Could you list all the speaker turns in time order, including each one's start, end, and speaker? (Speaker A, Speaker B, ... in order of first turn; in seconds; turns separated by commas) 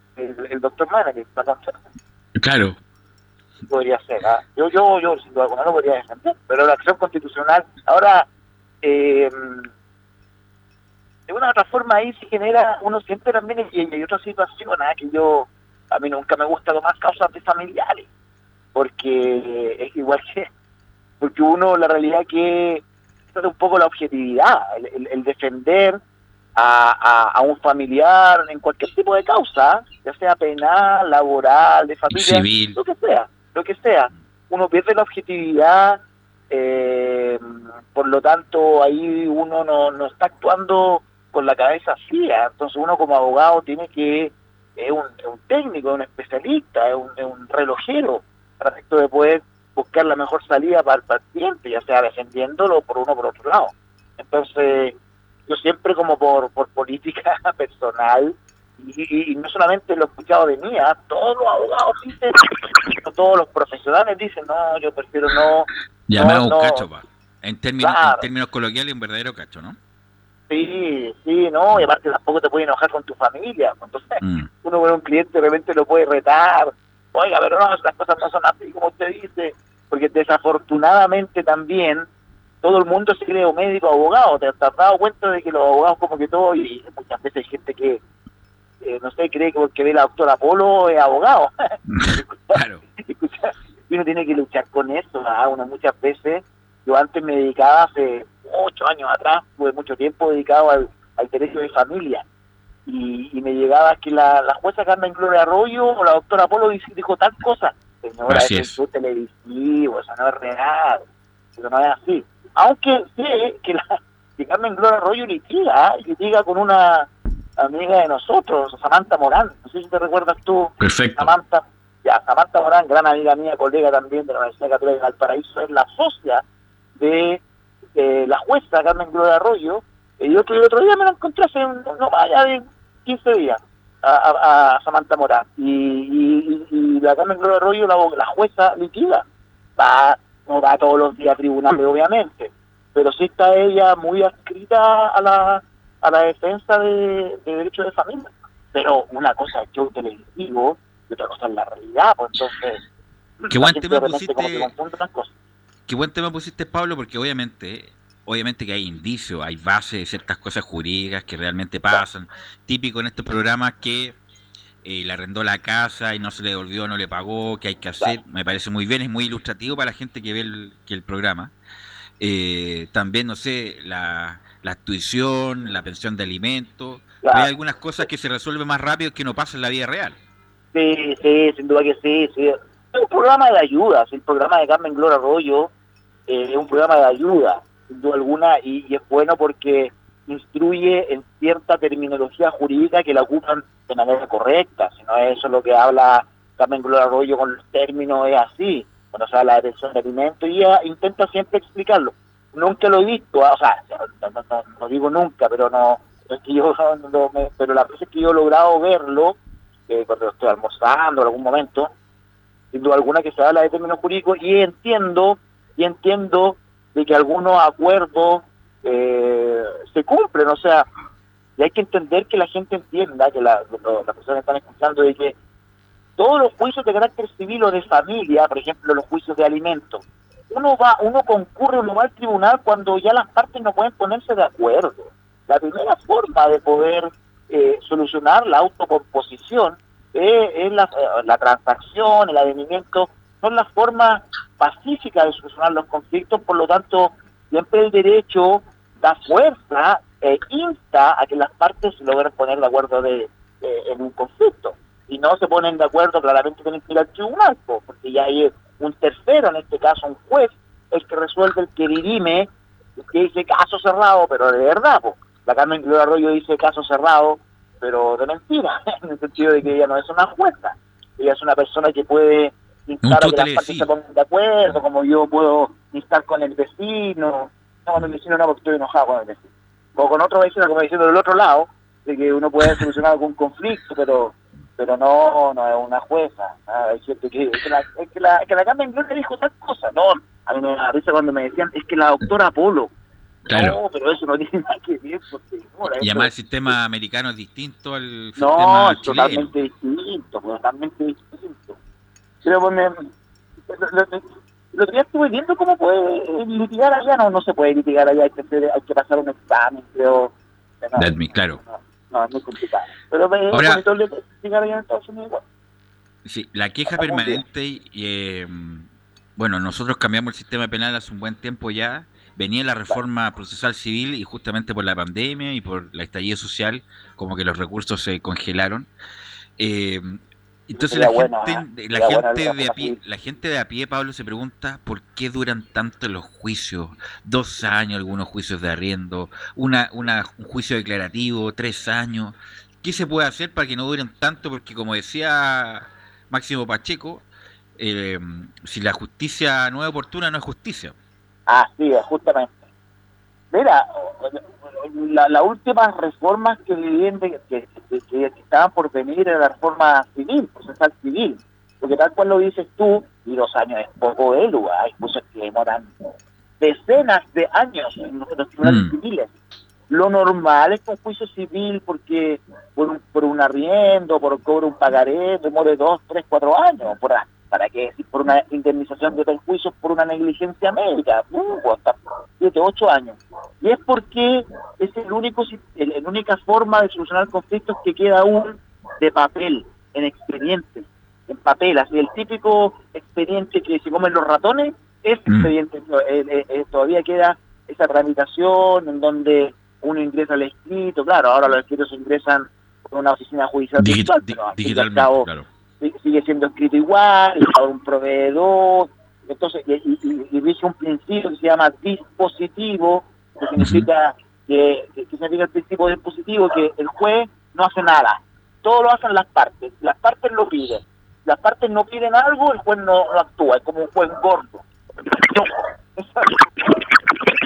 Speaker A: 0.1-1.8, Speaker B: 2.4-2.8, Speaker A: 3.7-8.3, Speaker A: 8.8-9.7, Speaker A: 11.3-18.1, Speaker A: 18.7-20.5, Speaker A: 21.2-22.8, Speaker A: 23.3-26.0, Speaker A: 26.6-55.0, Speaker B: 32.1-32.8, Speaker A: 55.5-66.8, Speaker B: 66.1-69.8, Speaker A: 67.8-68.2, Speaker A: 70.5-82.0, Speaker B: 74.2-74.5, Speaker A: 82.6-88.0, Speaker A: 88.8-102.2, Speaker B: 91.9-92.8, Speaker A: 102.9-111.0, Speaker B: 108.3-108.8, Speaker A: 111.6-126.4, Speaker B: 120.8-121.3, Speaker A: 127.0-127.4, Speaker A: 127.9-139.2, Speaker A: 139.8-152.8, Speaker A: 153.4-155.3, Speaker B: 153.5-154.7, Speaker B: 155.9-164.2, Speaker B: 164.8-171.5, Speaker B: 172.2-180.2, Speaker A: 177.2-177.5, Speaker A: 180.7-185.7, Speaker A: 186.3-211.9, Speaker A: 212.7-220.9, Speaker A: 221.6-225.3, Speaker A: 226.2-292.9, Speaker B: 273.0-273.9, Speaker B: 293.5-293.8, Speaker A: 293.5-296.3, Speaker B: 295.9-299.5, Speaker A: 298.4-301.8, Speaker A: 302.4-303.1, Speaker A: 303.7-315.4, Speaker B: 311.0-311.6, Speaker B: 313.5-313.8, Speaker B: 316.2-328.9, Speaker A: 316.9-317.4, Speaker B: 329.6-347.2, Speaker A: 330.7-333.0, Speaker B: 347.8-350.9, Speaker A: 351.5-352.5, Speaker A: 353.5-365.9, Speaker A: 366.6-369.3, Speaker B: 368.6-368.9, Speaker A: 369.9-405.3, Speaker B: 403.8-405.4, Speaker A: 405.8-426.9, Speaker B: 413.6-413.9